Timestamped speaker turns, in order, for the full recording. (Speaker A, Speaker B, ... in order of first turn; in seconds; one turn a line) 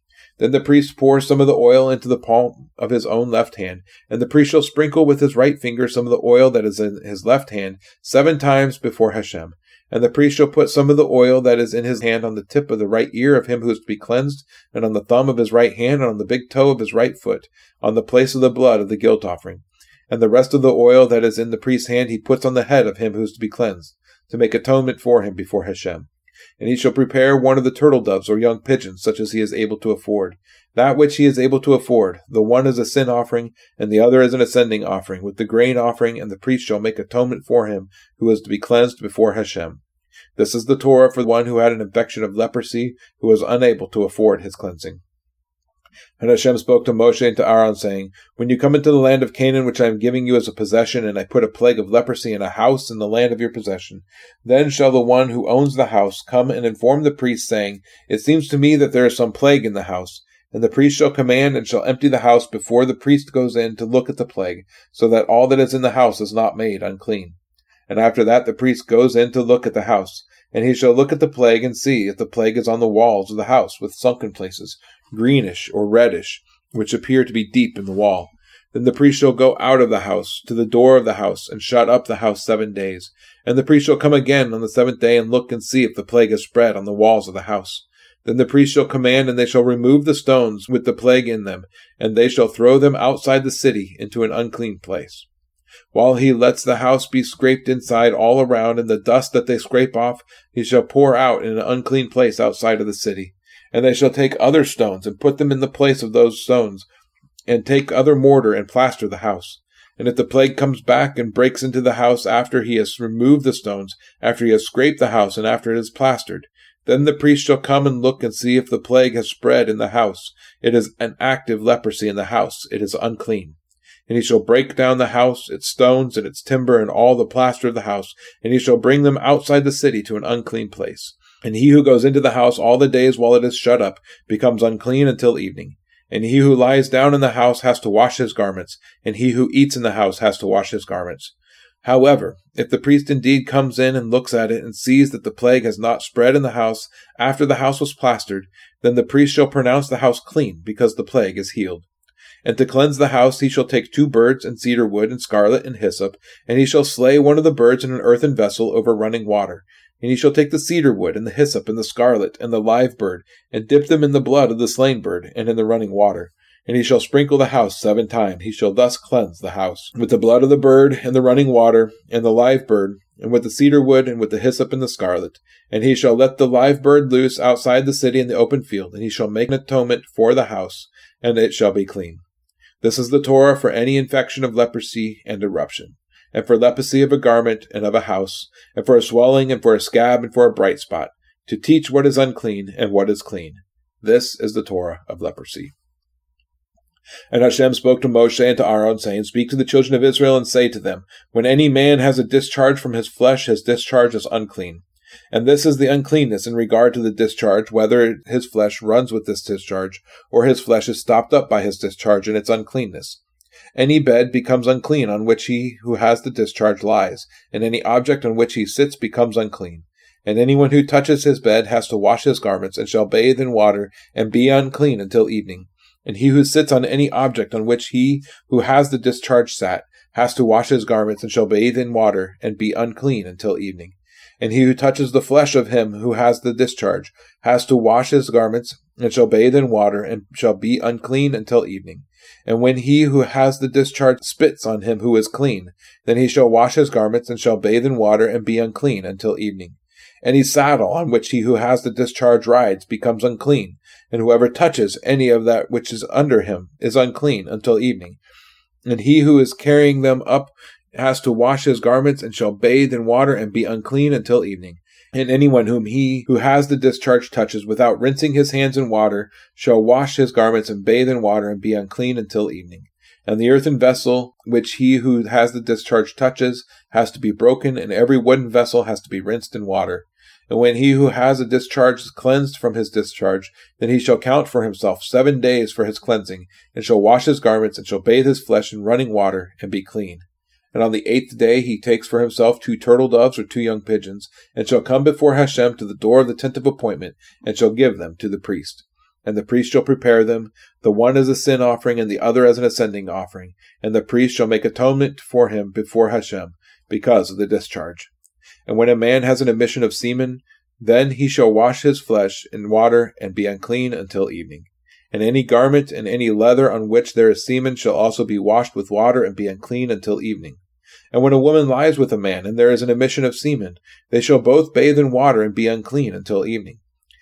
Speaker A: 0.4-39.8
Speaker A: 40.4-45.0
Speaker A: 46.2-67.4
Speaker A: 67.9-95.3
Speaker A: 95.9-106.9
Speaker A: 107.5-151.9
Speaker A: 152.4-182.2
Speaker A: 182.8-195.7
Speaker A: 197.3-213.2
Speaker A: 213.7-258.2
Speaker A: 258.9-308.1
Speaker A: 308.7-320.6
Speaker A: 321.1-326.8